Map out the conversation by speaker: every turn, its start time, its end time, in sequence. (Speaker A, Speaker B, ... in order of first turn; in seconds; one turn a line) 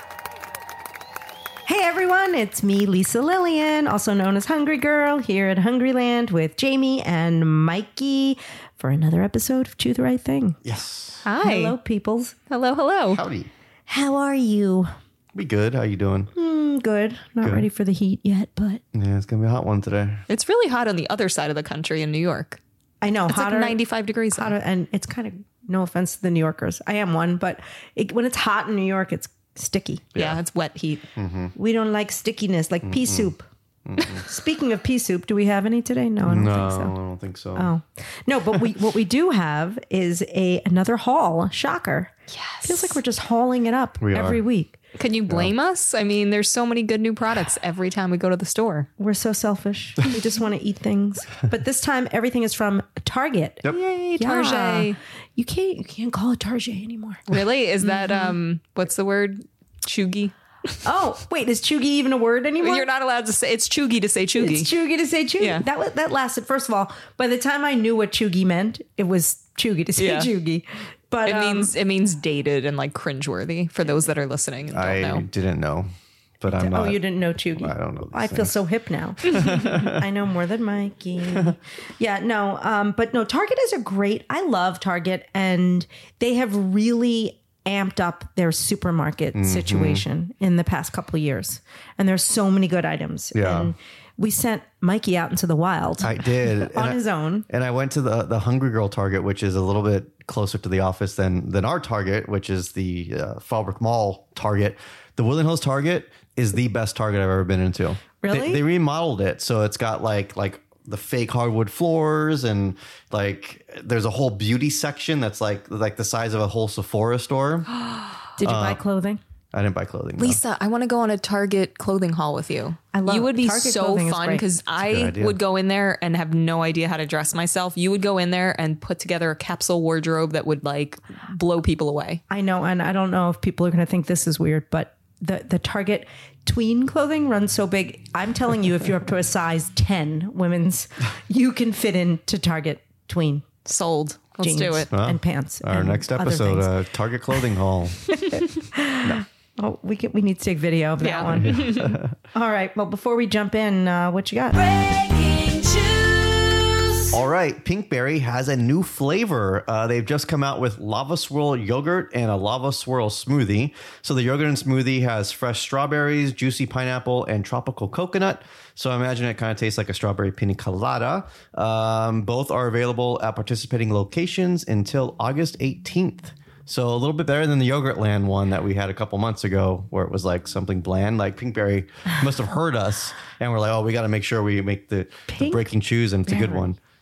Speaker A: 1.6-10.6
Speaker B: 10.6-11.2
Speaker C: 11.2-11.8
Speaker A: 11.4-12.3
Speaker C: 12.5-13.2
Speaker B: 13.1-13.5
Speaker A: 13.9-14.9
Speaker B: 15.3-16.3
Speaker A: 16.3-18.8
Speaker B: 17.4-17.7
Speaker B: 18.9-20.2
Speaker C: 20.3-22.6
Speaker A: 23.0-23.8
Speaker C: 23.3-24.5
Speaker A: 24.3-30.0
Speaker B: 30.1-30.4
Speaker C: 30.1-31.1
Speaker B: 31.1-31.5
Speaker A: 31.6-33.5
Speaker B: 32.8-33.3
Speaker B: 33.9-34.2
Speaker A: 34.2-36.9
Speaker B: 36.2-37.7
Speaker A: 37.5-42.1
Speaker C: 42.3-43.0
Speaker A: 42.6-44.8
Speaker B: 44.0-44.4
Speaker C: 44.9-48.9
Speaker A: 49.0-57.2
Speaker C: 53.7-55.0
Speaker C: 57.3-60.8
Speaker A: 57.8-58.3
Speaker A: 60.8-62.9
Speaker C: 62.6-64.7
Speaker A: 64.4-71.7
Speaker C: 65.4-65.7
Speaker C: 70.0-70.3
Speaker C: 71.2-75.2
Speaker B: 74.7-78.5
Speaker A: 76.5-97.5
Speaker B: 79.2-80.0
Speaker B: 89.3-90.0
Speaker B: 93.3-93.7
Speaker B: 96.0-117.7
Speaker A: 108.2-108.6
Speaker A: 118.4-119.2
Speaker B: 118.4-118.8
Speaker B: 119.5-120.4
Speaker C: 120.2-132.2
Speaker A: 122.9-124.4
Speaker B: 124.8-125.4
Speaker A: 132.3-143.4
Speaker C: 143.6-144.9
Speaker A: 144.4-146.7
Speaker B: 144.9-148.1
Speaker A: 148.1-154.6
Speaker C: 151.0-152.0
Speaker B: 151.3-152.2
Speaker D: 154.5-157.2
Speaker B: 157.1-186.8
Speaker A: 185.3-185.6
Speaker A: 186.3-186.7